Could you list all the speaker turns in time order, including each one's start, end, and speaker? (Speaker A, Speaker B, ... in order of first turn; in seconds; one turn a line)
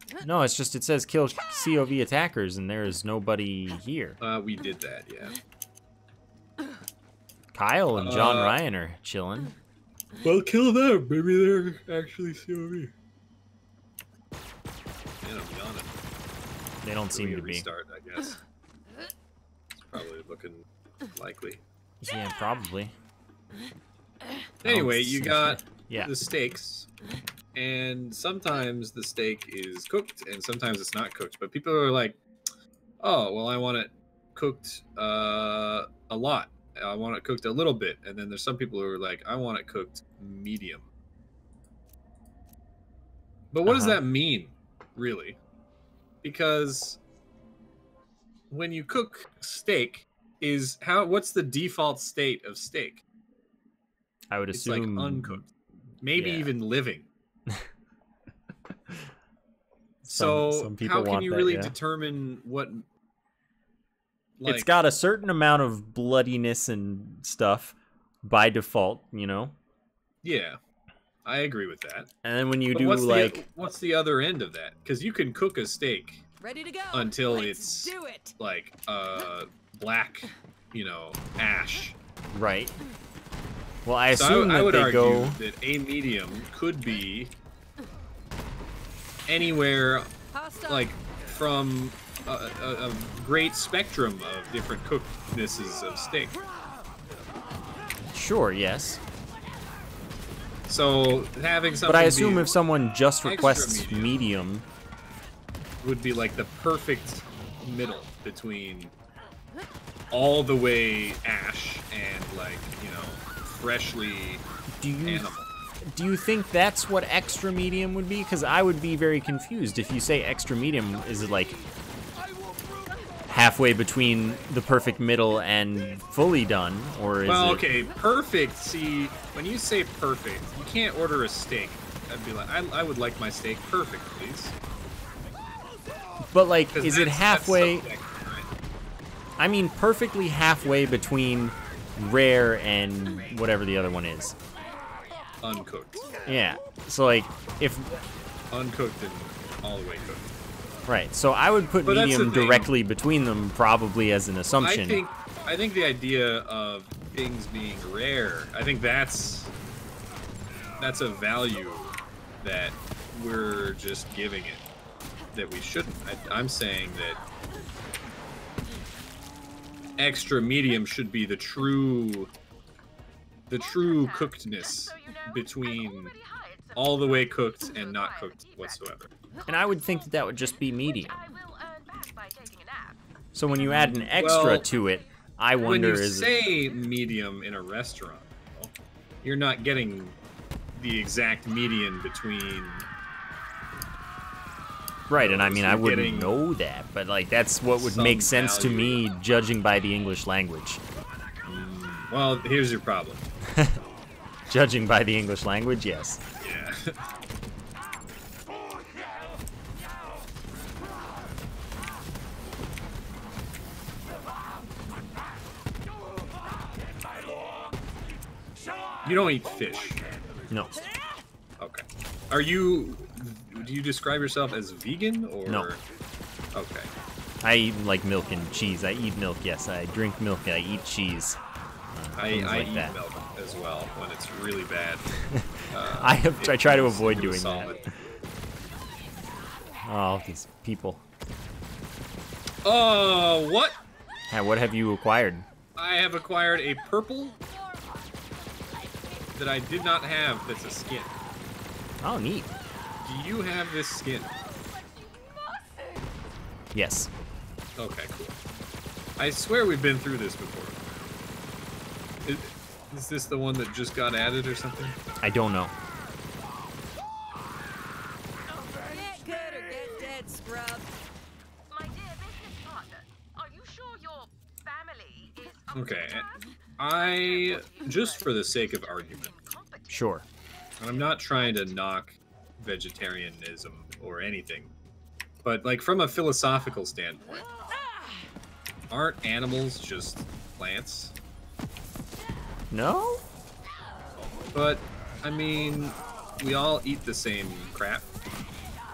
Speaker A: 0.2-4.2
Speaker B: 4.2-5.4
Speaker A: 7.5-9.5
Speaker B: 7.9-8.6
Speaker B: 10.2-12.9
Speaker B: 15.2-15.9
Speaker A: 16.8-17.7
Speaker B: 17.1-18.4
Speaker B: 19.7-21.6
Speaker A: 22.0-22.9
Speaker B: 24.6-26.9
Speaker A: 24.6-26.1
Speaker B: 27.5-32.2
Speaker B: 33.0-40.9
Speaker B: 43.5-45.4
Speaker A: 43.6-44.0
Speaker B: 46.2-47.0
Speaker B: 48.5-53.0
Speaker A: 54.3-55.4
Speaker B: 54.5-55.5
Speaker B: 56.0-57.1
Speaker A: 56.1-56.5
Speaker B: 60.0-62.9
Speaker A: 60.1-61.7
Speaker B: 64.4-64.7
Speaker A: 64.4-69.5
Speaker B: 70.2-70.6
Speaker B: 71.2-72.1
Speaker A: 72.2-73.4
Speaker B: 72.7-76.2
Speaker C: 76.4-78.3
Speaker B: 76.9-82.0
Speaker A: 82.3-82.7
Speaker A: 83.8-85.4
Speaker B: 84.1-87.3
Speaker B: 89.3-90.1
Speaker C: 90.3-90.9
Speaker B: 90.7-96.3
Speaker A: 98.1-99.0
Speaker B: 100.7-102.5
Speaker A: 101.8-104.7
Speaker B: 103.2-104.2
Speaker B: 105.8-108.9
Speaker B: 110.1-114.4
Speaker A: 114.8-115.3
Speaker B: 115.0-115.5
Speaker A: 115.8-121.5
Speaker A: 123.3-127.7
Speaker B: 127.2-134.5
Speaker A: 136.2-137.9
Speaker B: 136.7-138.5
Speaker A: 139.4-144.3
Speaker B: 145.4-146.1
Speaker A: 146.2-148.0
Speaker B: 148.5-150.3
Speaker A: 150.8-155.0
Speaker B: 151.8-152.7
Speaker B: 154.6-159.5
Speaker B: 160.8-164.6
Speaker B: 165.3-167.2
Speaker B: 170.0-172.3
Speaker B: 173.5-176.1
Speaker D: 173.5-178.9
Speaker B: 176.7-179.1
Speaker D: 179.4-183.0
Speaker A: 179.5-181.2
Speaker A: 183.3-186.3
Speaker B: 184.1-184.7
Speaker D: 184.2-185.3
Speaker B: 185.6-188.7
Speaker D: 186.4-186.8
Speaker B: 189.2-190.2
Speaker B: 190.7-192.8
Speaker A: 195.1-200.8
Speaker B: 195.2-196.3
Speaker B: 197.8-199.0
Speaker B: 201.4-203.3
Speaker A: 203.5-203.8
Speaker A: 204.5-206.2
Speaker B: 206.4-206.9
Speaker B: 219.0-220.1
Speaker A: 220.5-220.8
Speaker B: 221.6-225.8
Speaker B: 226.5-226.9
Speaker A: 227.4-231.4
Speaker A: 231.9-233.0
Speaker B: 232.2-235.0
Speaker A: 235.3-237.9
Speaker B: 235.7-237.8
Speaker A: 239.8-241.0
Speaker B: 242.6-243.8
Speaker A: 244.3-245.4
Speaker B: 245.8-247.3
Speaker D: 247.6-247.8
Speaker D: 248.7-250.6
Speaker B: 249.3-251.1
Speaker A: 252.0-252.5
Speaker B: 253.0-254.3
Speaker D: 254.4-255.9
Speaker A: 256.7-257.1
Speaker B: 257.8-258.4
Speaker B: 259.2-260.8
Speaker B: 262.2-265.0
Speaker A: 265.2-265.7
Speaker D: 268.5-269.4
Speaker C: 268.8-270.9
Speaker D: 271.7-280.1
Speaker B: 275.7-279.3
Speaker A: 279.9-280.2
Speaker B: 280.8-284.7
Speaker D: 280.9-281.9
Speaker B: 285.4-287.4
Speaker B: 288.9-291.1
Speaker A: 292.7-293.2
Speaker B: 294.5-298.1